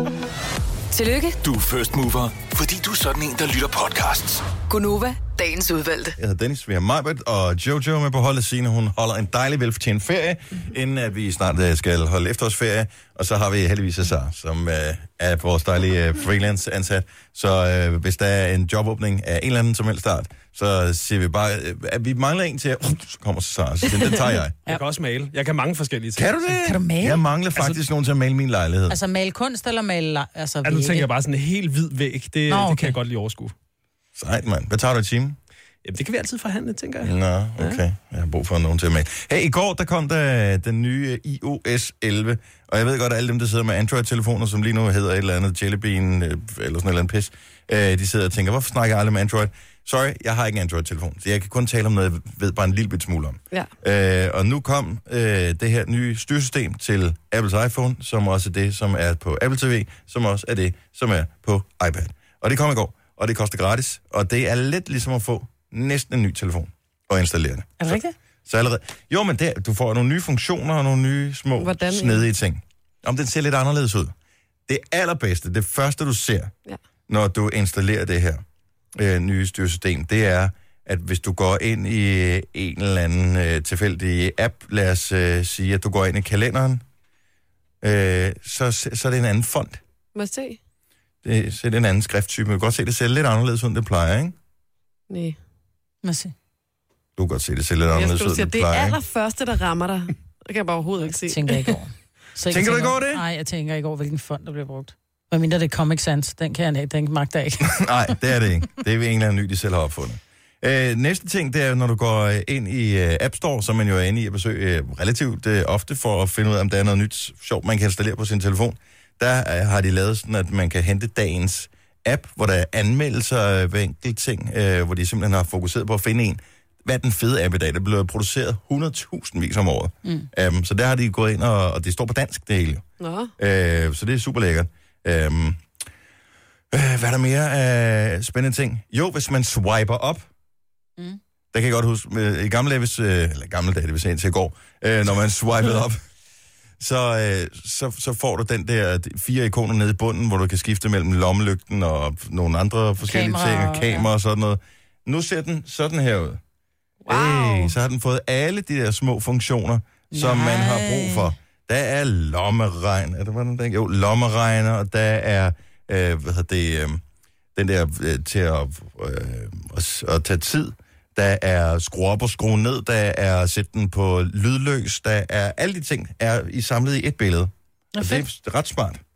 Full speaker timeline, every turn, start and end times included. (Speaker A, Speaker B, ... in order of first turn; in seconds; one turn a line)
Speaker A: 0.9-1.4
Speaker B: 1.4-4.5
Speaker A: 4.7-6.2
Speaker C: 6.2-24.6
Speaker D: 24.7-26.5
Speaker C: 26.2-29.0
Speaker E: 26.6-27.2
Speaker E: 28.9-31.1
Speaker D: 30.6-33.5
Speaker E: 32.5-33.0
Speaker C: 34.2-35.4
Speaker D: 35.9-37.8
Speaker C: 37.0-74.1
Speaker E: 67.8-68.1
Speaker F: 71.6-72.2
Speaker C: 74.7-76.5
Speaker C: 77.1-78.4
Speaker C: 79.0-86.8
Speaker C: 87.8-89.8
Speaker F: 90.2-90.6
Speaker C: 91.2-94.3
Speaker F: 95.1-95.4
Speaker E: 96.0-96.3
Speaker C: 97.2-99.0
Speaker F: 97.9-101.7
Speaker E: 101.1-107.8
Speaker C: 102.5-103.2
Speaker C: 107.6-132.8
Speaker F: 133.0-133.3
Speaker C: 133.4-135.6
Speaker C: 136.7-140.3
Speaker C: 141.5-146.0
Speaker C: 146.8-156.4
Speaker E: 153.0-154.1
Speaker E: 157.1-157.7
Speaker C: 157.1-167.0
Speaker E: 160.1-161.3
Speaker C: 167.6-179.0
Speaker E: 177.9-178.3